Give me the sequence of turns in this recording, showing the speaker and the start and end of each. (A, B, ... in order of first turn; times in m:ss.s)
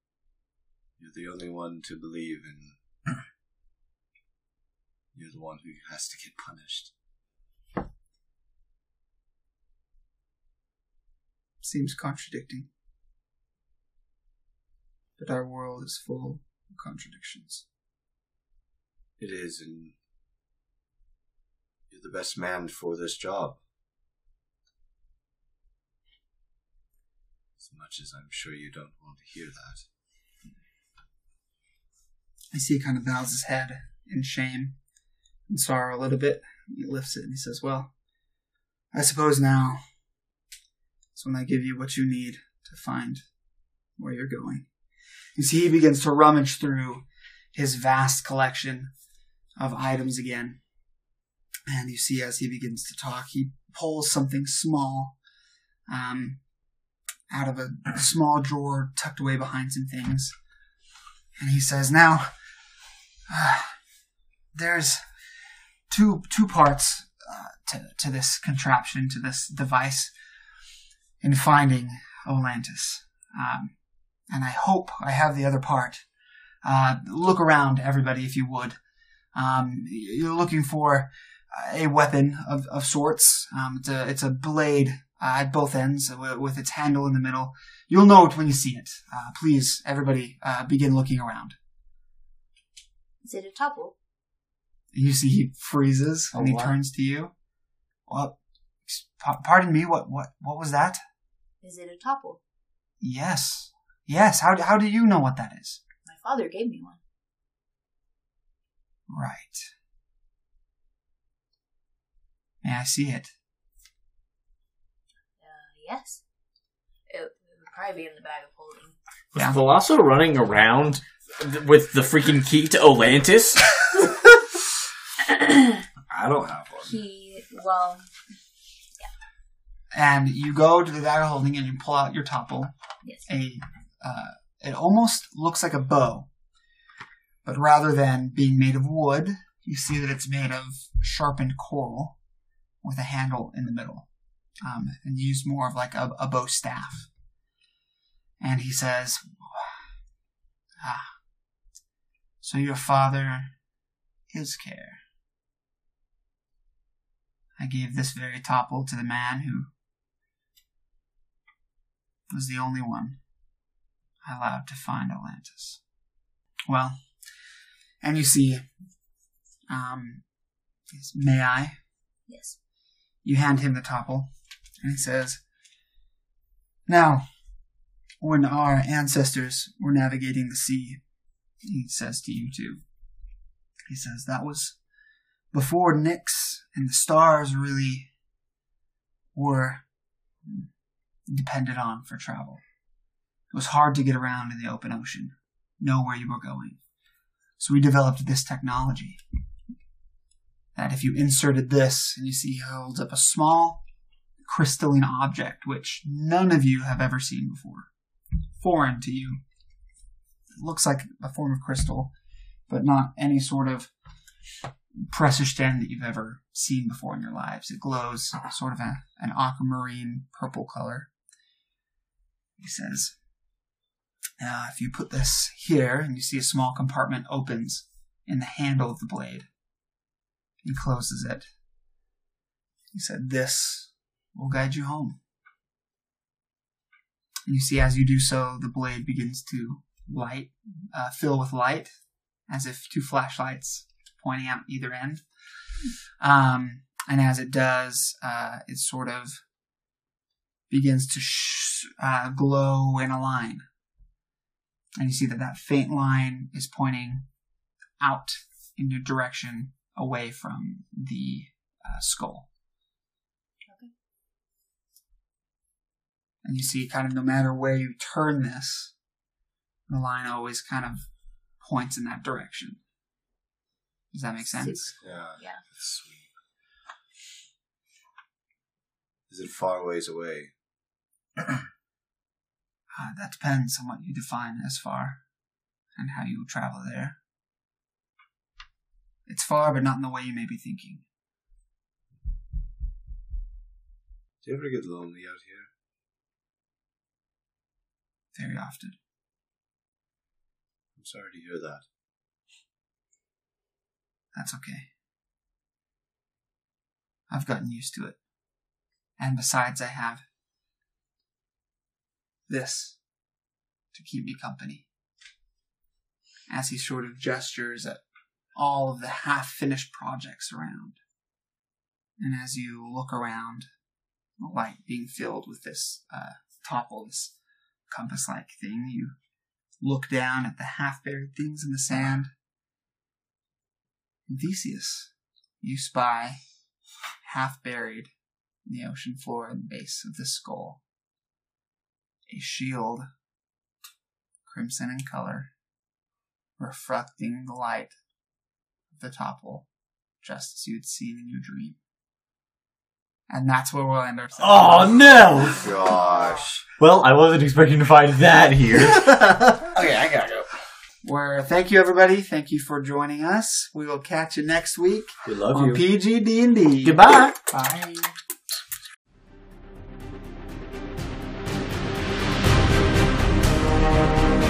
0:01.0-0:03.1 A
0:05.1-0:06.9 A
0:11.6-0:12.7 B
0:15.2-0:17.6 B
0:19.2-0:19.9 A
0:21.9-0:23.6 A
0:27.6-0:29.8 A
0:32.5-0:34.8 B
0:35.5-0:37.9 B
0:38.9-0:39.8 B
0:41.1-0:43.2 B
0:44.0-0:44.7 B
0:45.4-0:48.9 B
0:49.6-0:50.6 B
0:51.7-0:55.2 B
0:55.9-0:56.4 B
0:57.3-1:00.3 B
1:01.4-1:02.3 B
1:03.3-1:03.8 B
1:04.5-1:05.1 B
1:05.9-1:10.1 B
1:11.2-1:13.7 B
1:14.3-1:16.0 B
1:16.6-1:18.8 B
1:19.3-1:31.6 B
1:33.2-1:33.9 C
1:34.9-1:37.3 B
1:38.1-1:41.0 B
1:41.6-1:42.4 C
1:43.0-1:45.8 B
1:46.0-1:47.0 C
1:49.1-1:49.7 B
1:52.6-1:53.3 B
1:55.4-1:56.2 C
1:57.1-1:59.0 C
1:59.3-2:03.8 D
2:06.1-2:07.0 A
2:06.8-2:08.1 C
2:09.9-2:12.7 B
2:13.2-2:16.3 B
2:17.4-2:22.2 B
2:22.8-2:24.1 B
2:24.6-2:27.1 B
2:28.4-2:29.8 B
2:30.8-2:31.2 B
2:32.4-2:33.5 B
2:34.3-2:35.0 B
2:37.6-2:39.7 B
2:42.3-2:43.2 B
2:44.2-2:45.8 B
2:46.7-2:47.0 B
2:48.0-2:48.7 B
2:49.7-2:50.2 B
2:50.9-2:51.8 B
2:52.3-2:52.6 C
2:53.2-2:55.4 B
2:56.9-2:57.2 B
2:58.2-3:01.0 B
3:01.6-3:02.8 B
3:03.9-3:04.8 B
3:05.5-3:08.1 B
3:09.3-3:09.8 B
3:11.3-3:12.6 B
3:13.5-3:16.8 B
3:17.6-3:19.2 B
3:20.7-3:23.8 B
3:24.4-3:27.9 B
3:28.6-3:29.4 B
3:30.6-3:32.1 B
3:32.7-3:33.9 B
3:35.0-3:41.1 B
3:42.6-3:43.1 B
3:44.4-3:49.5 B
3:50.6-3:51.5 B
3:52.9-3:55.2 B
3:57.5-4:01.9 B
4:02.5-4:05.2 B
4:06.2-4:09.4 B
4:10.7-4:13.6 B
4:15.0-4:17.2 B
4:18.0-4:22.5 B
4:23.6-4:23.9 C
4:26.4-4:28.9 B
4:29.9-4:31.1 B
4:31.6-4:32.8 B
4:34.1-4:34.9 B
4:34.5-4:35.6 C
4:35.0-4:36.3 A
4:39.3-4:40.5 A
4:42.9-4:45.2 B
4:46.0-4:47.2 B
4:49.3-4:51.0 B
4:54.4-4:55.7 A
4:58.3-4:59.0 B
5:01.0-5:01.8 A
5:04.3-5:04.9 B
5:07.3-5:08.2 B
5:09.2-5:10.2 B
5:12.5-5:13.0 B
5:13.9-5:14.8 B
5:16.5-5:18.0 B
5:18.6-5:21.0 B
5:22.2-5:23.7 B
5:24.4-5:27.3 B
5:27.9-5:29.1 B
5:29.8-5:32.3 B
5:34.3-5:36.4 B
5:37.2-5:38.1 B
5:38.6-5:40.8 B
5:42.3-5:43.1 B
5:44.5-5:45.5 B
5:46.6-5:47.9 B
5:48.9-5:49.7 B
5:50.2-5:51.8 B
5:53.3-5:55.5 B
5:54.4-5:55.7 D
5:55.6-5:56.6 A
5:56.8-5:59.9 D
6:01.0-6:08.2 B
6:05.3-6:05.8 D
6:06.8-6:07.4 D